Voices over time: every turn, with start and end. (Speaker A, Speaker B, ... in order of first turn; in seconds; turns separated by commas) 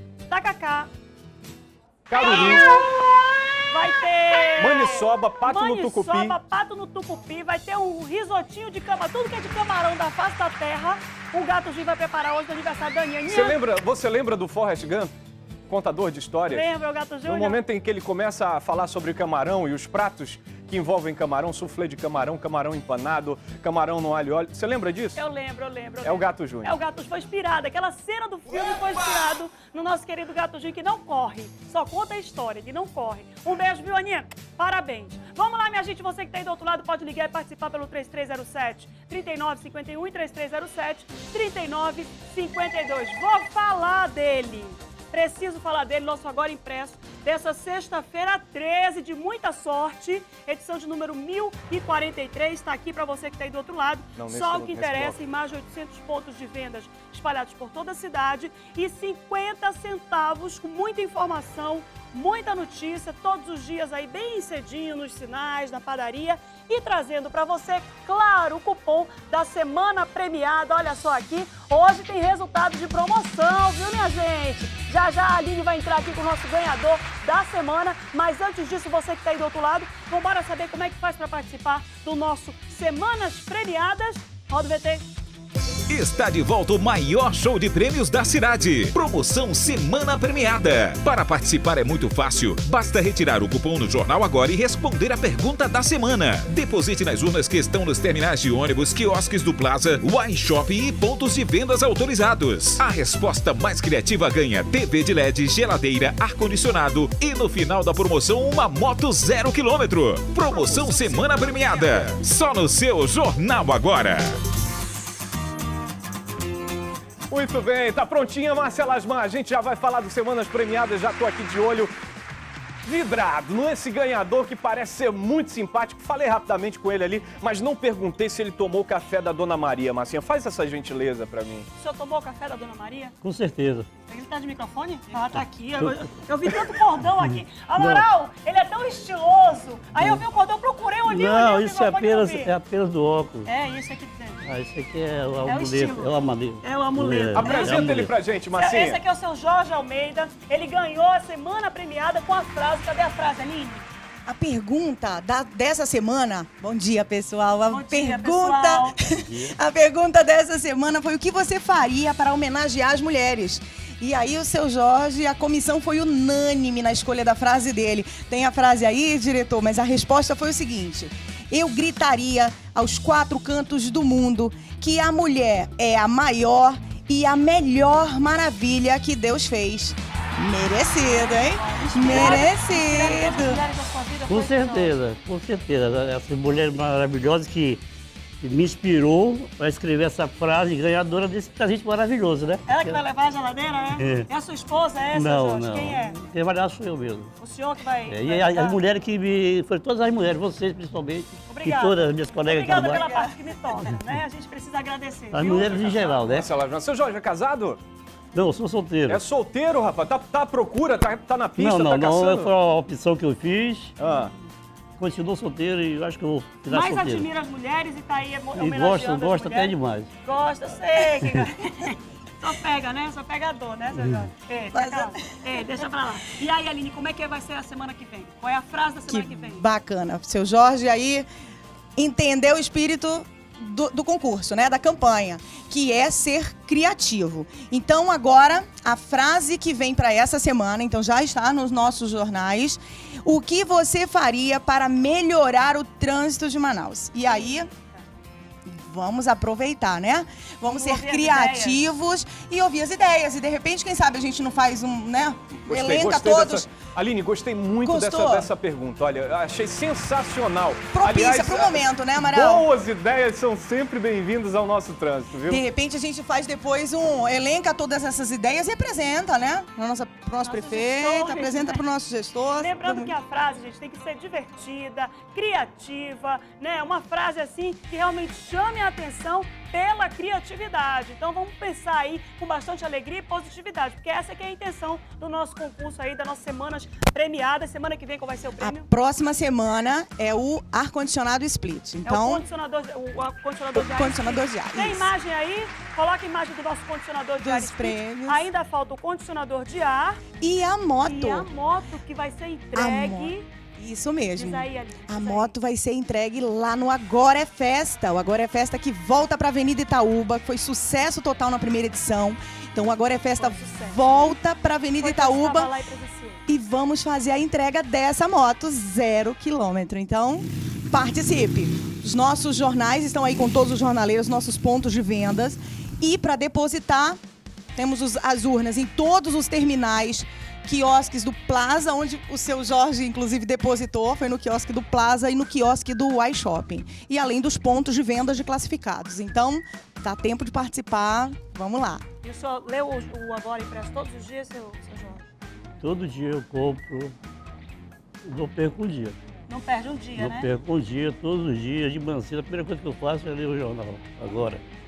Speaker A: 0.3-0.9, Speaker B: 2.1-2.8, Speaker A: 2.2-2.9, Speaker A: 3.7-13.6, Speaker B: 4.6-6.3, Speaker B: 13.3-15.1, Speaker B: 15.7-16.7, Speaker A: 16.5-17.6, Speaker B: 17.2-25.2, Speaker A: 25.1-85.0, Speaker B: 26.0-26.7, Speaker B: 54.1-55.1, Speaker C: 85.9-114.3, Speaker A: 110.5-111.8, Speaker B: 117.3-121.9, Speaker B: 122.8-131.7, Speaker A: 131.8-133.2, Speaker D: 133.2-133.9, Speaker A: 134.0-142.6, Speaker D: 135.8-136.2, Speaker D: 137.2-138.1, Speaker D: 141.1-143.5, Speaker A: 143.4-144.4, Speaker D: 144.4-148.1, Speaker A: 145.4-148.0, Speaker B: 147.3-149.0, Speaker A: 148.5-153.8, Speaker E: 154.2-183.6, Speaker A: 157.7-159.0, Speaker D: 159.1-159.6, Speaker A: 181.0-185.0, Speaker D: 184.3-187.8, Speaker D: 188.4-193.0, Speaker A: 192.7-196.2, Speaker D: 194.0-194.3, Speaker D: 195.1-197.3, Speaker A: 197.4-198.8, Speaker D: 198.0-203.0, Speaker A: 201.5-206.2, Speaker E: 203.0-203.3, Speaker D: 205.3-206.5, Speaker B: 205.9-207.8, Speaker D: 208.3-209.2, Speaker B: 209.1-212.5, Speaker D: 211.6-213.9, Speaker B: 214.0-214.3, Speaker D: 215.0-217.3, Speaker A: 216.7-229.6, Speaker D: 218.5-220.1, Speaker E: 224.7-225.5, Speaker E: 229.1-231.2, Speaker E: 231.9-247.7, Speaker A: 247.2-248.0, Speaker E: 248.7-256.6, Speaker A: 250.7-251.8, Speaker B: 255.7-265.6, Speaker E: 257.8-258.5, Speaker E: 260.9-262.7, Speaker E: 265.4-273.1, Speaker A: 270.4-271.8, Speaker A: 272.6-288.9, Speaker E: 288.6-292.4, Speaker A: 292.1-300.2, Speaker E: 293.7-295.1, Speaker E: 297.4-298.5, Speaker E: 300.4-301.5, Speaker A: 301.0-303.5, Speaker E: 302.7-315.7, Speaker A: 304.4-305.5, Speaker A: 313.4-314.4, Speaker A: 315.0-316.4, Speaker E: 316.5-327.2, Speaker E: 327.8-342.0, Speaker A: 342.2-345.2, Speaker D: 345.8-347.1, Speaker D: 348.2-349.2, Speaker A: 349.5-350.5, Speaker D: 350.1-354.6